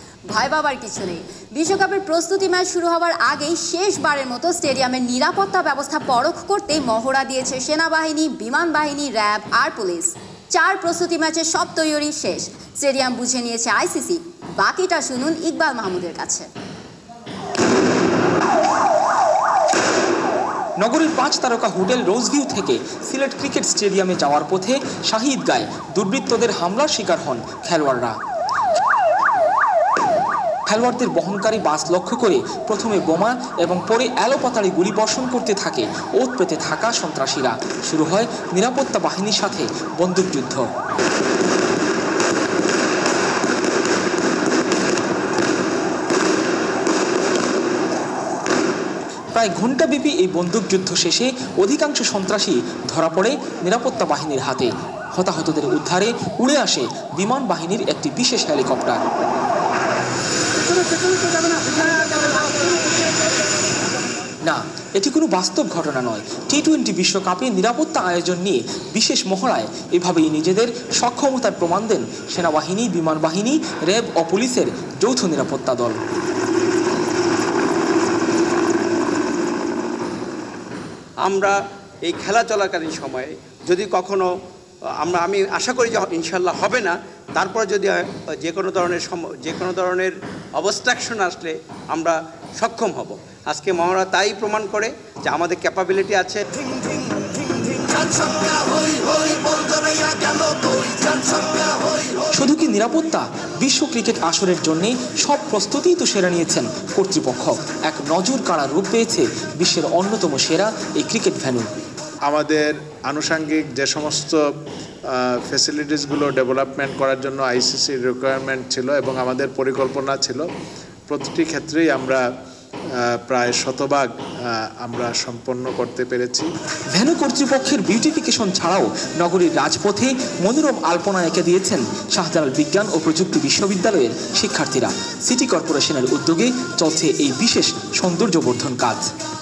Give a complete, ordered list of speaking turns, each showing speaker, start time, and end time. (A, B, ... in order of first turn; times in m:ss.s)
0:00.3-0:16.5 A
0:20.8-0:28.2 B
0:30.7-0:40.7 B
0:49.3-0:59.0 B
1:04.4-1:16.0 B
1:21.2-1:24.3 C
1:25.0-1:36.4 C
1:38.0-1:39.7 C
1:42.3-1:51.7 B
1:52.3-1:54.4 D
1:55.1-2:00.5 D
2:01.1-2:02.2 D
2:03.0-2:06.5 D
2:06.9-2:19.0 B